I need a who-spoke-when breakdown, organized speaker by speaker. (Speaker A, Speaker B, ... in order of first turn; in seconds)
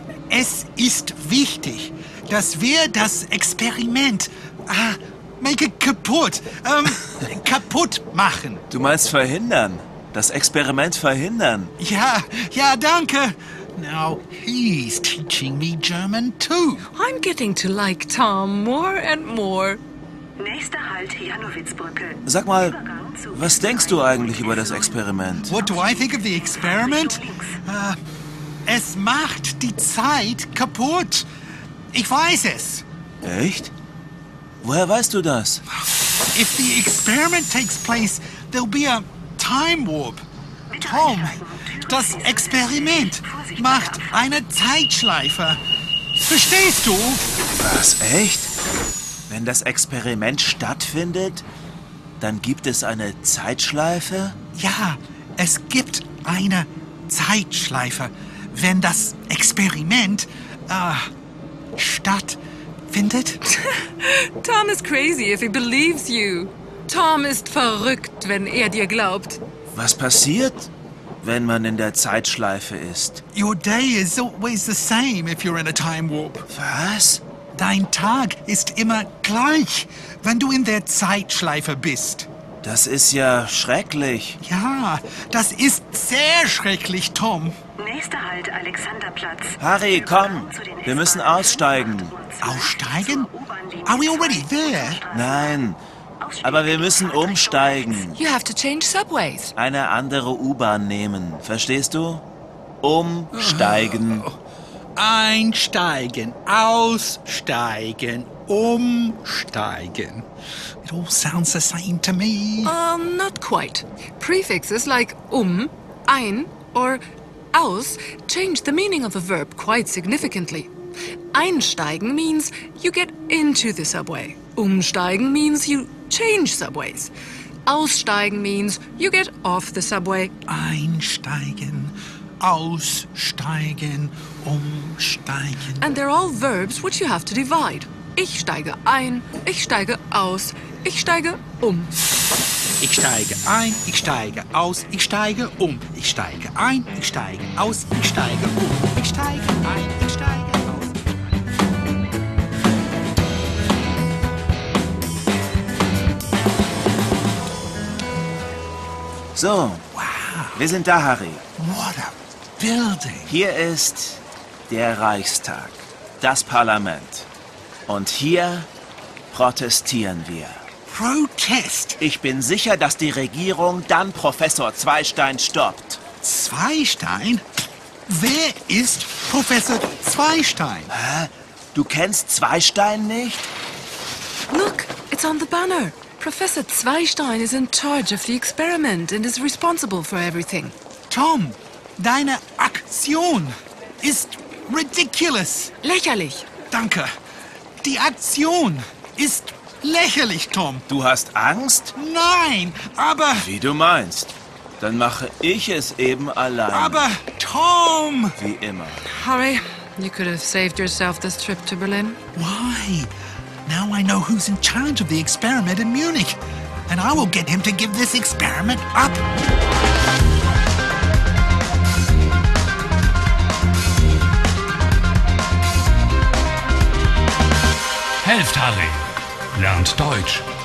Speaker A: 0.3-8.7, 11.8-16.9, 25.5-28.0, 28.7-31.2, 31.9-32.9, 36.3-45.6, 46.1-47.2, 54.5-61.1, 61.8-63.4, 73.3-76.5, 77.5-82.3, 84.4-87.6, 92.4-95.1, 103.3-104.3, 105.0-110.3, 110.8-112.8, 130.5-135.9, 142.8-151.2, 159.9-160.7, 161.6-163.3, 170.9-172.0, 176.2-177.4, 178.1-180.9, 191.1-195.7, 196.7-197.1, 197.8-200.9, 202.0-203.5, 206.7-208.4, 212.3-213.1, 213.7-219.2
Speaker B: 8.7-11.7, 22.2-25.6, 33.2-33.7, 34.6-35.6, 47.5-48.5, 49.3-51.4, 52.2-54.4, 69.7-70.7, 71.2-73.2, 76.5-77.2, 82.6-84.4, 89.6-92.2, 95.1-95.8, 96.4-98.2, 99.6-102.2, 102.8-104.3, 159.3-159.8, 160.6-161.4, 163.3-167.3, 167.9-168.7, 169.3-170.6, 172.0-176.0, 180.9-183.5, 200.9-201.9, 203.3-207.0, 208.4-209.0
Speaker C: 16.9-19.8, 63.5-69.4, 98.2-99.5, 112.6-120.7, 121.3-127.1, 127.7-130.3, 135.8-141.9, 184.5-190.7, 195.8-196.5, 209.1-212.2
Speaker D: 20.4-22.2, 40.8-41.7, 42.2-42.7, 87.8-89.5
Speaker E: 228.2-230.5